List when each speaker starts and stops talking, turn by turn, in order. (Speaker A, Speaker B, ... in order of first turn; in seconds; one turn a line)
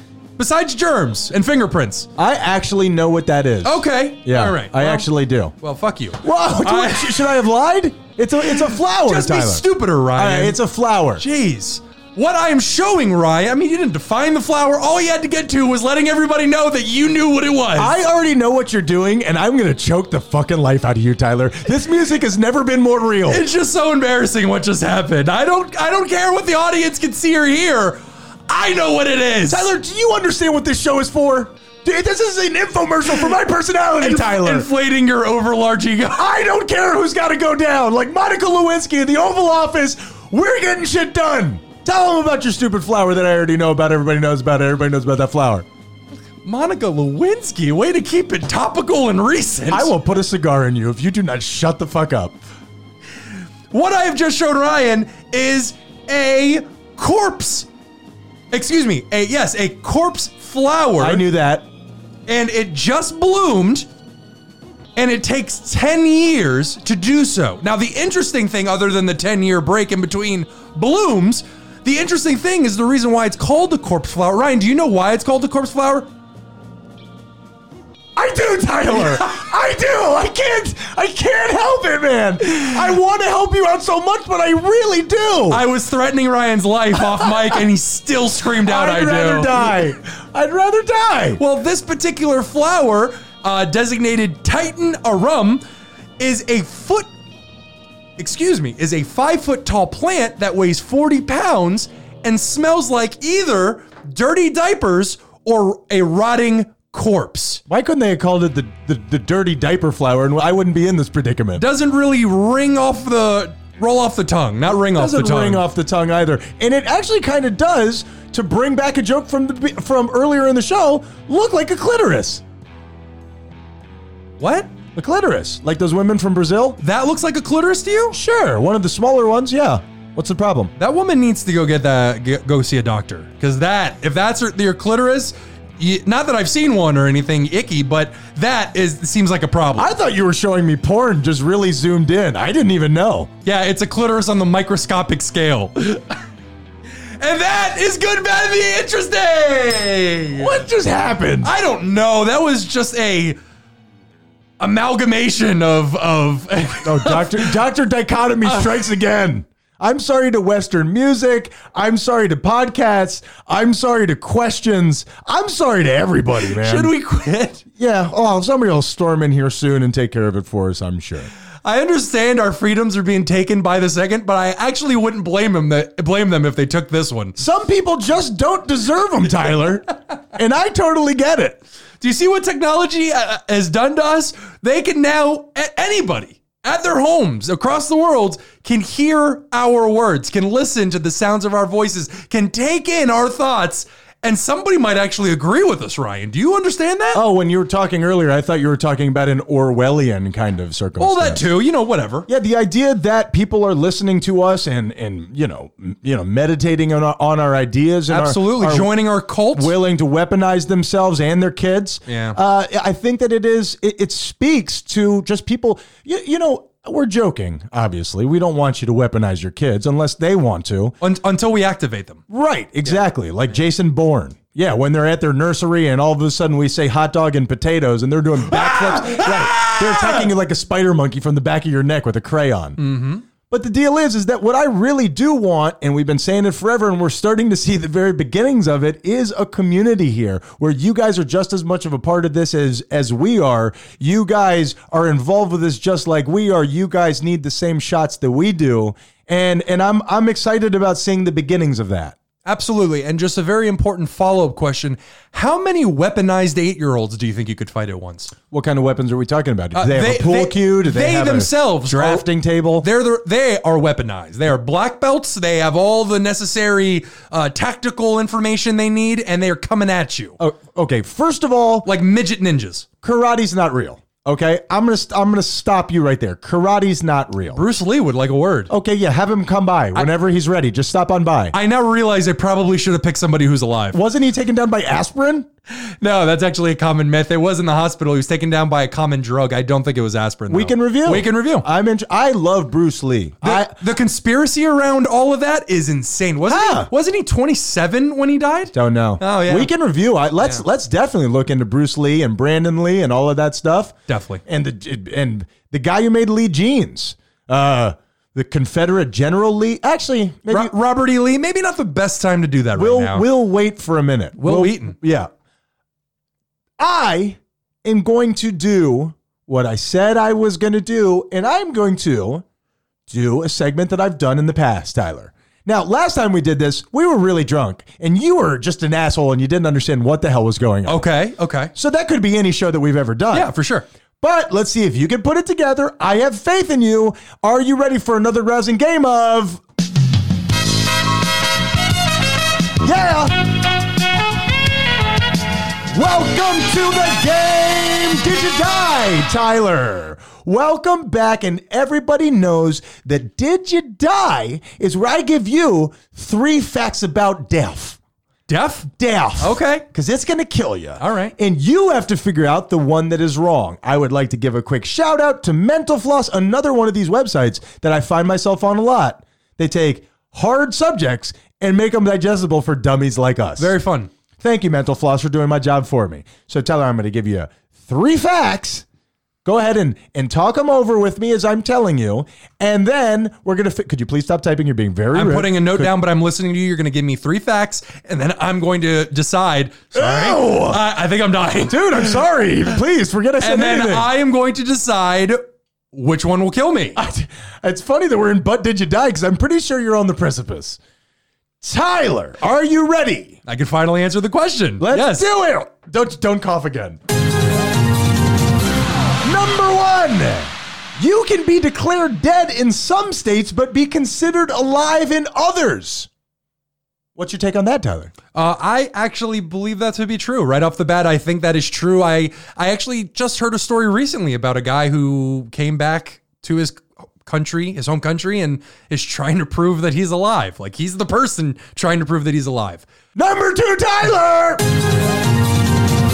Speaker A: 0.4-2.1
Speaker B: 2.2-5.5
Speaker A: 3.6-5.1
Speaker A: 5.6-7.4
Speaker B: 6.2-11.2
Speaker A: 8.4-10.6
Speaker A: 11.2-18.0
Speaker B: 17.8-23.4
Speaker A: 23.3-29.7
Speaker B: 29.5-34.7
Speaker A: 34.0-36.2
Speaker B: 36.1-45.6
Speaker A: 46.4-49.9
Speaker B: 49.7-52.4
Speaker A: 53.7-57.7
Speaker A: 58.5-61.2
Speaker B: 61.0-61.7
Speaker A: 62.3-63.9
Speaker A: 65.0-76.1
Speaker B: 78.2-85.6
Speaker A: 78.9-79.3
Speaker A: 85.5-89.9
Speaker B: 88.6-91.4
Speaker A: 91.4-95.6
Speaker A: 96.2-97.1
Speaker A: 98.2-107.6
Speaker B: 107.7-111.6
Speaker A: 111.5-115.7
Speaker B: 114.7-122.4
Speaker A: 124.4-124.7
Speaker B: 124.9-126.8
Speaker A: 126.8-128.2
Speaker B: 128.1-130.7
Speaker A: 130.8-139.9
Speaker B: 139.8-143.3
Speaker A: 143.4-146.2
Speaker A: 146.9-150.7
Speaker B: 150.3-151.5
Speaker A: 151.4-153.4
Speaker A: 154.6-157.6
Speaker B: 156.8-166.9
Speaker A: 158.4-158.9
Speaker A: 166.4-167.6
Speaker B: 167.8-171.3
Speaker A: 171.6-177.4
Speaker B: 177.4-181.6
Speaker A: 182.0-197.2
Speaker B: 197.1-201.4
Speaker A: 201.0-202.3
Speaker B: 202.3-208.9
Speaker A: 208.1-209.7
Speaker B: 209.5-220.9
Speaker A: 212.1-212.4
Speaker A: 221.0-222.2
Speaker B: 222.3-232.8
Speaker A: 228.4-230.3
Speaker A: 232.8-233.2
Speaker B: 233.5-252.2
Speaker A: 252.4-258.3
Speaker B: 258.5-262.9
Speaker A: 259.7-262.2
Speaker A: 262.8-270.4
Speaker B: 270.4-271.9
Speaker A: 271.8-272.9
Speaker B: 273.0-277.6
Speaker A: 277.5-278.7
Speaker B: 278.7-281.5
Speaker A: 281.5-284.0
Speaker B: 283.9-285.5
Speaker A: 285.7-291.6
Speaker B: 290.5-293.7
Speaker A: 293.4-299.7
Speaker B: 296.5-296.9
Speaker B: 298.7-303.9
Speaker A: 300.4-300.6
Speaker A: 304.1-304.4
Speaker B: 304.4-310.7
Speaker A: 310.5-313.2
Speaker B: 312.8-315.3
Speaker A: 314.4-314.9
Speaker B: 316.8-322.4
Speaker B: 323.1-331.1
Speaker A: 330.9-331.7
Speaker B: 331.7-333.5
Speaker A: 333.3-333.9
Speaker B: 334.2-339.6
Speaker B: 342.8-343.5
Speaker B: 345.9-358.0
Speaker A: 358.5-358.9
Speaker B: 358.9-373.7
Speaker A: 359.4-359.8
Speaker A: 361.0-361.3
Speaker A: 373.6-374.1
Speaker B: 374.4-378.8
Speaker B: 379.4-385.9
Speaker A: 385.1-392.2
Speaker B: 389.9-390.8
Speaker B: 391.7-394.1
Speaker A: 393.4-395.4
Speaker A: 395.9-397.0
Speaker B: 396.9-400.8
Speaker B: 401.6-403.4
Speaker A: 403.4-405.2
Speaker B: 404.8-407.0
Speaker B: 409.2-416.1
Speaker B: 417.1-418.1
Speaker A: 418.3-432.9
Speaker B: 433.1-434.6